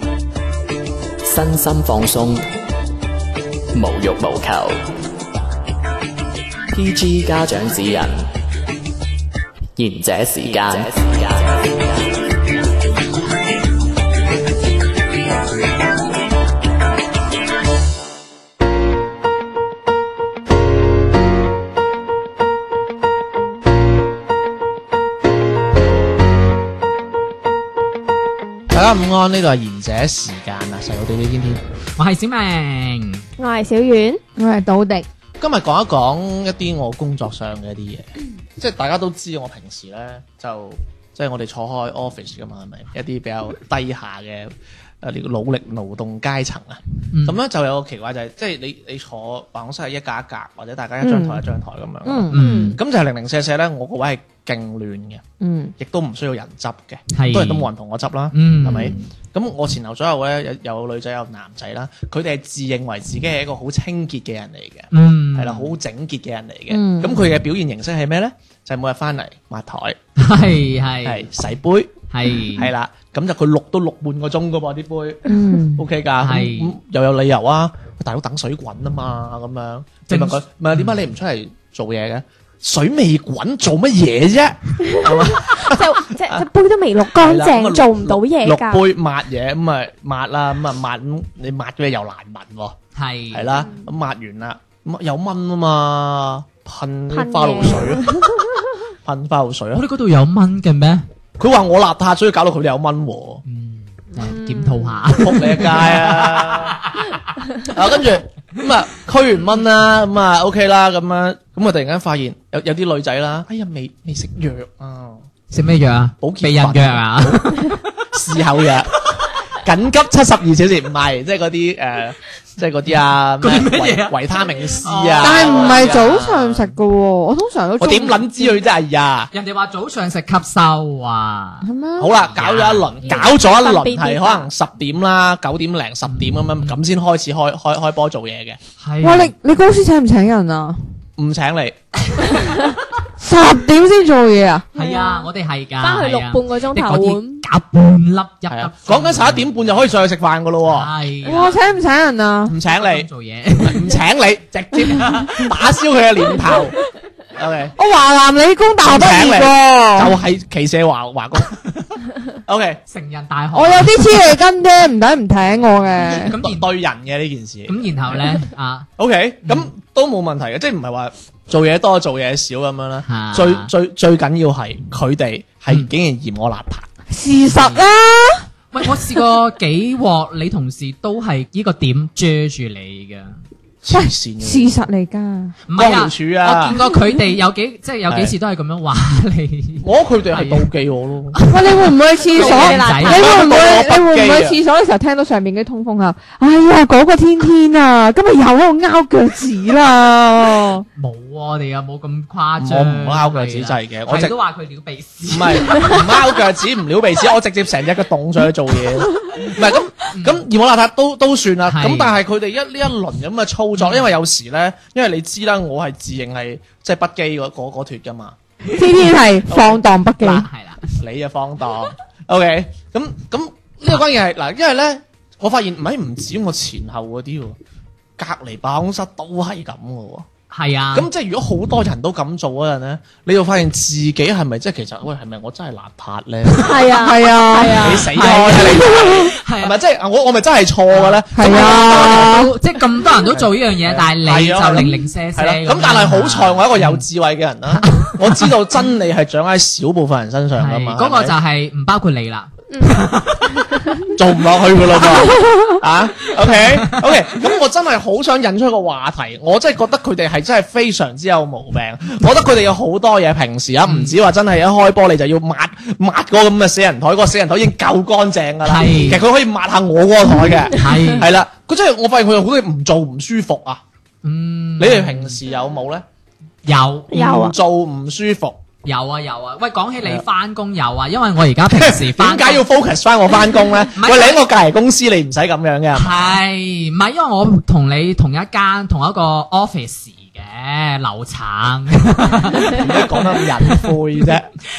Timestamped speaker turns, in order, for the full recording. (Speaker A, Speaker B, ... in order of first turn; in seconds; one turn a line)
Speaker A: 1.3-2.4
Speaker A: 3.7-4.8
Speaker A: 6.7-8.3
Speaker A: 9.8-12.0
Speaker B: 28.7-31.6
Speaker C: 32.0-33.2
Speaker D: 33.4-34.2
Speaker E: 34.4-35.1
Speaker B: 35.4-38.1
Speaker B: 38.6-55.2
Speaker C: 47.1-47.4
Speaker E: 51.0-51.4
Speaker E: 52.0-52.4
Speaker C: 52.3-52.8
Speaker D: 52.3-52.8
Speaker E: 55.4-55.7
Speaker B: 55.8-70.0
Speaker C: 57.1-57.7
Speaker C: 58.3-59.0
Speaker C: 64.9-65.8
Speaker E: 66.7-67.2
Speaker C: 70.2-71.3
Speaker B: 71.0-71.9
Speaker C: 72.1-72.7
Speaker B: 72.5-75.2
Speaker E: 75.3-75.8
Speaker B: 75.8-86.5
Speaker C: 76.2-76.7
Speaker C: 80.1-81.0
Speaker D: 84.9-88.8
Speaker B: 87.2-92.8
Speaker C: 93.0-93.5
Speaker B: 93.3-98.1
Speaker D: 93.5-93.9
Speaker D: 97.1-98.4
Speaker B: 99.0-99.9
Speaker C: 99.8-101.0
Speaker B: 101.4-103.4
Speaker C: 103.5-107.2
Speaker D: 104.2-104.9
Speaker B: 105.1-106.8
Speaker B: 107.7-115.2
Speaker C: 115.5-118.2
Speaker B: 116.2-117.6
Speaker B: 118.1-119.0
Speaker B: 119.5-126.7
Speaker C: 123.4-124.2
Speaker D: 124.3-124.8
Speaker C: 124.8-126.0
Speaker E: 125.2-128.6
Speaker B: 127.8-129.3
Speaker C: 129.3-131.6
Speaker E: 131.6-132.1
Speaker B: 132.0-138.6
Speaker C: 132.3-133.2
Speaker D: 133.1-134.5
Speaker C: 136.1-136.8
Speaker C: 138.8-139.3
Speaker E: 139.0-140.8
Speaker B: 141.2-141.8
Speaker E: 143.2-144.7
Speaker D: 144.8-145.3
Speaker C: 144.8-149.8
Speaker D: 145.8-147.4
Speaker B: 148.5-150.9
Speaker C: 150.7-151.6
Speaker E: 151.2-152.5
Speaker B: 152.5-153.1
Speaker C: 152.7-154.0
Speaker B: 153.6-156.8
Speaker C: 154.9-155.5
Speaker B: 157.3-157.7
Speaker E: 157.8-160.1
Speaker B: 158.8-161.6
Speaker B: 162.5-162.8
Speaker C: 162.9-164.3
Speaker E: 163.5-166.4
Speaker B: 166.0-168.4
Speaker C: 166.1-166.7
Speaker C: 167.7-168.9
Speaker B: 169.0-176.9
Speaker C: 173.1-173.7
Speaker E: 177.1-178.4
Speaker C: 177.5-177.9
Speaker C: 178.7-183.4
Speaker B: 183.8-184.7
Speaker E: 183.9-185.6
Speaker C: 185.7-190.7
Speaker B: 185.8-186.8
Speaker B: 188.1-188.3
Speaker B: 189.8-191.4
Speaker C: 191.3-193.3
Speaker E: 191.5-200.8
Speaker D: 192.3-193.5
Speaker B: 193.1-194.6
Speaker C: 201.0-206.1
Speaker B: 202.6-204.4
Speaker B: 205.3-218.4
Speaker C: 210.1-210.4
Speaker C: 211.7-212.2
Speaker C: 213.8-214.1
Speaker E: 218.7-220.5
Speaker C: 219.0-219.7
Speaker C: 220.2-220.9
Speaker B: 220.9-227.6
Speaker B: 228.2-230.3
Speaker C: 230.5-231.1
Speaker B: 230.9-236.9
Speaker D: 236.6-238.1
Speaker E: 237.0-238.8
Speaker C: 237.7-239.8
Speaker B: 237.8-242.5
Speaker C: 240.9-247.0
Speaker E: 241.4-242.5
Speaker B: 243.2-251.3
Speaker C: 247.8-248.5
Speaker C: 250.6-253.4
Speaker D: 252.7-254.1
Speaker B: 254.2-273.8
Speaker C: 256.3-257.1
Speaker C: 263.9-264.2
Speaker C: 268.6-269.2
Speaker C: 270.7-271.3
Speaker C: 274.2-275.4
Speaker B: 274.8-276.1
Speaker C: 276.7-277.3
Speaker D: 277.1-277.6
Speaker B: 277.1-278.6
Speaker C: 278.9-282.7
Speaker B: 281.7-286.4
Speaker C: 283.9-284.4
Speaker C: 285.9-294.3
Speaker B: 292.7-294.5